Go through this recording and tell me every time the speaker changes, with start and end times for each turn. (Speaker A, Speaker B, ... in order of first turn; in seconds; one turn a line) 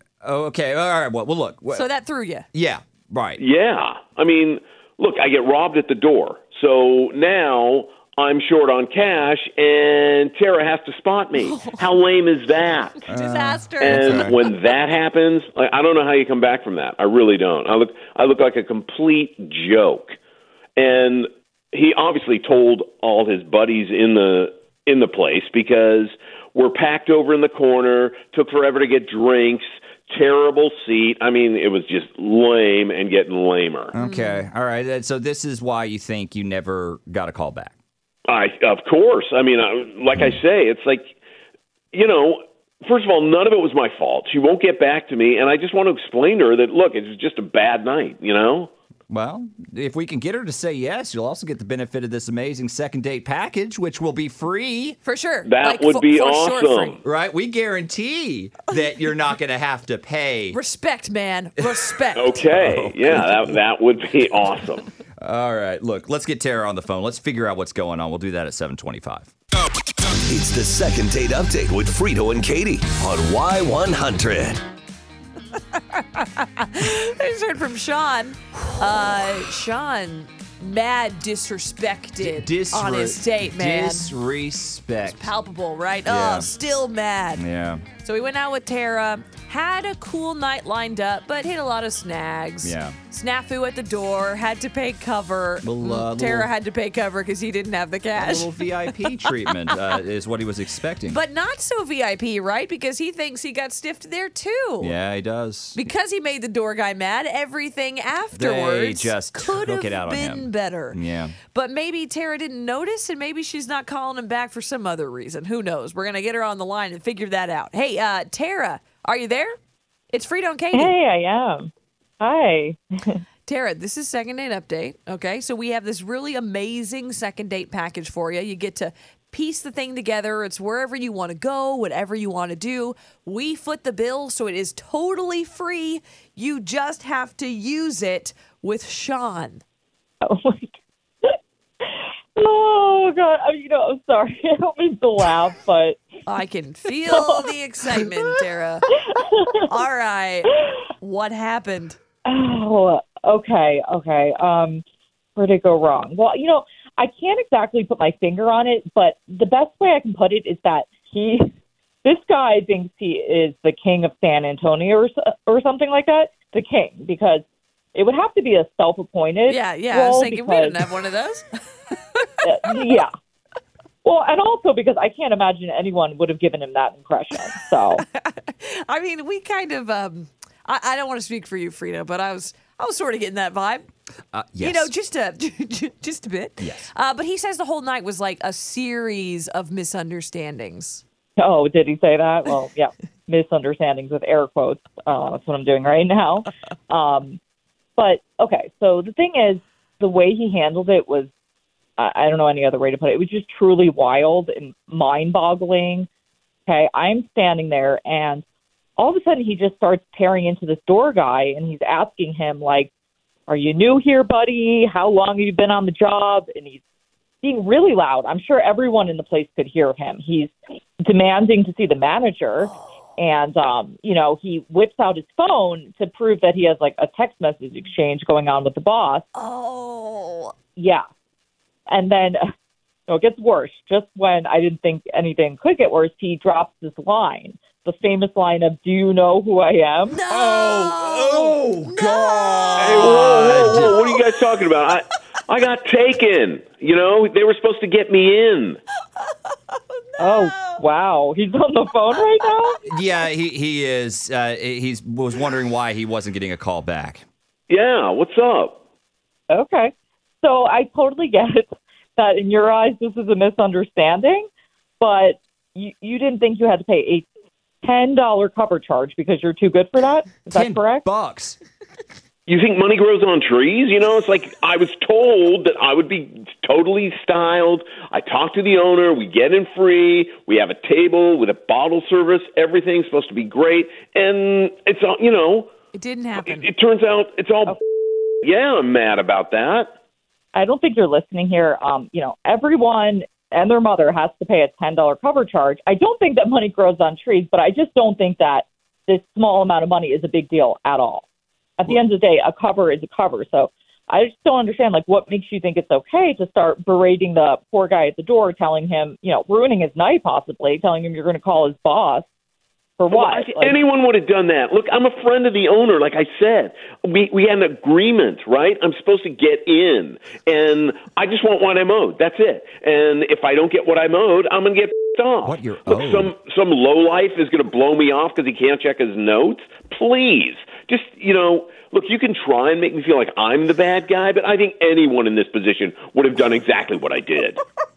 Speaker A: 0.2-1.9
Speaker B: 1.7-2.5
Speaker A: 2.5-3.4
Speaker C: 3.4-13.1
Speaker B: 11.4-11.9
Speaker B: 13.0-14.8
Speaker A: 13.1-14.3
Speaker C: 13.8-20.1
Speaker C: 20.8-33.9
Speaker A: 33.9-37.8
Speaker B: 34.0-34.5
Speaker C: 38.3-41.2
Speaker C: 41.9-48.7
Speaker A: 49.1-55.0
Speaker B: 55.0-57.0
Speaker C: 55.5-57.0
Speaker A: 57.0-60.6
Speaker B: 60.5-62.5
Speaker C: 62.2-64.9
Speaker A: 62.5-63.6
Speaker A: 65.2-69.3
Speaker D: 70.1-74.6
Speaker B: 75.8-84.1
Speaker A: 78.7-79.2
Speaker A: 82.2-85.3
Speaker B: 85.0-87.4
Speaker A: 86.1-86.5
Speaker A: 87.4-87.8
Speaker B: 88.0-99.0
Speaker A: 92.6-93.0
Speaker A: 95.6-96.5
Speaker A: 98.2-101.2
Speaker B: 101.1-105.0
Speaker A: 104.8-105.8
Speaker B: 105.8-111.0
Speaker A: 108.3-111.4
Speaker B: 111.5-119.6
Speaker B: 120.1-120.9
Speaker E: 120.7-123.2
Speaker B: 123.5-139.6
Speaker E: 140.2-140.7
Speaker E: 141.2-146.0
Speaker B: 146.3-148.9
Speaker E: 147.1-147.4
Speaker E: 148.9-149.5
Speaker B: 149.6-152.0
Speaker E: 152.2-154.8
Speaker E: 155.4-161.5
Speaker E: 162.0-170.9
Speaker B: 169.5-172.3
Speaker E: 172.4-173.1
Speaker E: 174.0-178.1
Speaker B: 177.9-183.9
Speaker A: 184.3-184.9
Speaker B: 184.6-191.0
Speaker A: 186.6-186.9
Speaker E: 191.4-197.4
Speaker E: 198.0-201.3
Speaker E: 202.0-206.1
Speaker E: 206.7-208.4
Speaker E: 209.0-212.9
Speaker E: 213.5-216.8
Speaker E: 217.4-229.3
Speaker B: 222.6-222.9
Speaker B: 229.3-230.5
Speaker E: 230.8-231.0
Speaker E: 231.9-232.4
Speaker E: 233.1-240.2
Speaker B: 240.1-244.3
Speaker A: 240.3-244.0
Speaker C: 242.8-248.8
Speaker B: 249.2-250.8
Speaker E: 250.2-252.8
Speaker B: 252.1-253.0
Speaker A: 252.9-257.2
Speaker C: 257.7-258.8
Speaker E: 259.5-264.5
Speaker E: 265.0-267.3
Speaker E: 267.8-271.0
Speaker A: 270.5-271.6
Speaker C: 272.5-285.7
Speaker B: 285.9-286.7
Speaker C: 286.4-287.8
Speaker C: 288.4-289.9
Speaker E: 290.5-301.2
Speaker E: 301.8-312.3
Speaker E: 313.0-313.8
Speaker C: 313.1-337.6
Speaker A: 325.4-326.3